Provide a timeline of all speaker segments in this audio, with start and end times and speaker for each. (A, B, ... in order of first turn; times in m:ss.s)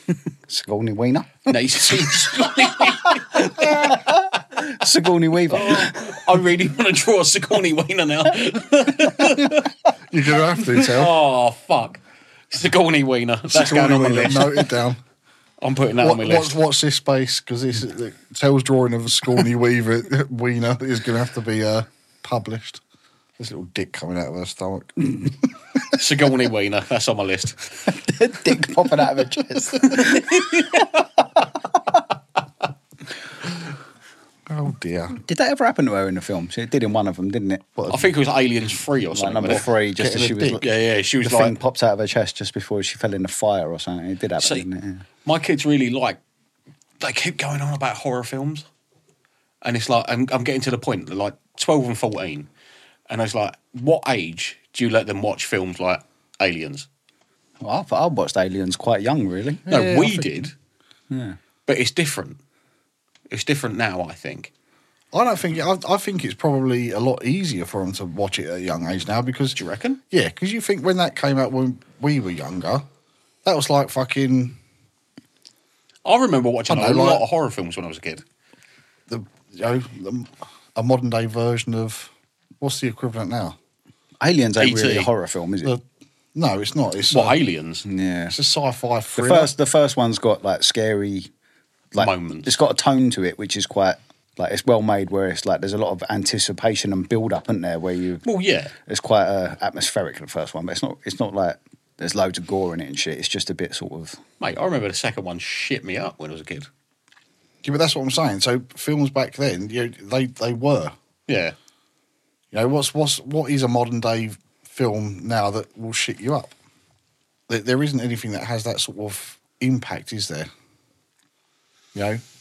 0:00.4-0:06.2 A
0:01.5-0:04.2 B
0:05.5-0:09.7 B
0:10.1-0:11.2 C
0:10.7-0:14.8 B
0:13.5-0:15.0 C
0:15.6-0:16.6 B
0:16.0-0:22.8 C
0:23.4-0:25.5 C
0:25.9-0:27.9 B
0:27.9-0:30.9 A
0:29.9-0:30.9 B
0:34.5-0:35.2 C
0:35.1-0:37.9 A
0:37.8-0:38.1 C
0:37.9-0:39.7 B
0:39.1-0:40.6 A
0:40.0-0:40.6 C
0:40.6-0:41.5 B
0:41.2-0:45.0 A
0:44.4-0:44.6 B
0:45.2-0:46.2 B
0:47.0-0:48.6 B
0:49.6-0:52.5 B
0:53.1-0:56.9 B
0:57.6-0:59.7 A
0:59.6-1:00.4 C
0:59.7-1:00.5 B
1:01.1-1:01.4 A
1:01.7-1:02.4 B
1:03.3-1:04.5 B
1:05.1-1:09.6 C
1:09.6-1:10.0 B
1:10.1-1:12.8 C
1:13.4-1:14.6 C
1:16.0-1:18.2 B
1:16.7-1:17.2 C
1:19.1-1:23.6 C
1:24.2-1:25.8 A
1:24.6-1:25.1 B
1:26.3-1:27.4 C
1:27.1-1:27.8 B
1:27.8-1:28.3 A
1:28.3-1:29.5 C
1:29.2-1:31.3 A
1:31.9-1:38.2 A
1:32.0-1:32.6 B
1:38.2-1:38.7 B
1:38.8-1:44.2 A
1:44.4-1:46.7 B
1:47.6-1:50.9 C
1:51.3-1:51.5 B
1:52.5-1:56.5 C
1:57.5-2:00.5 C
2:01.9-2:02.2 C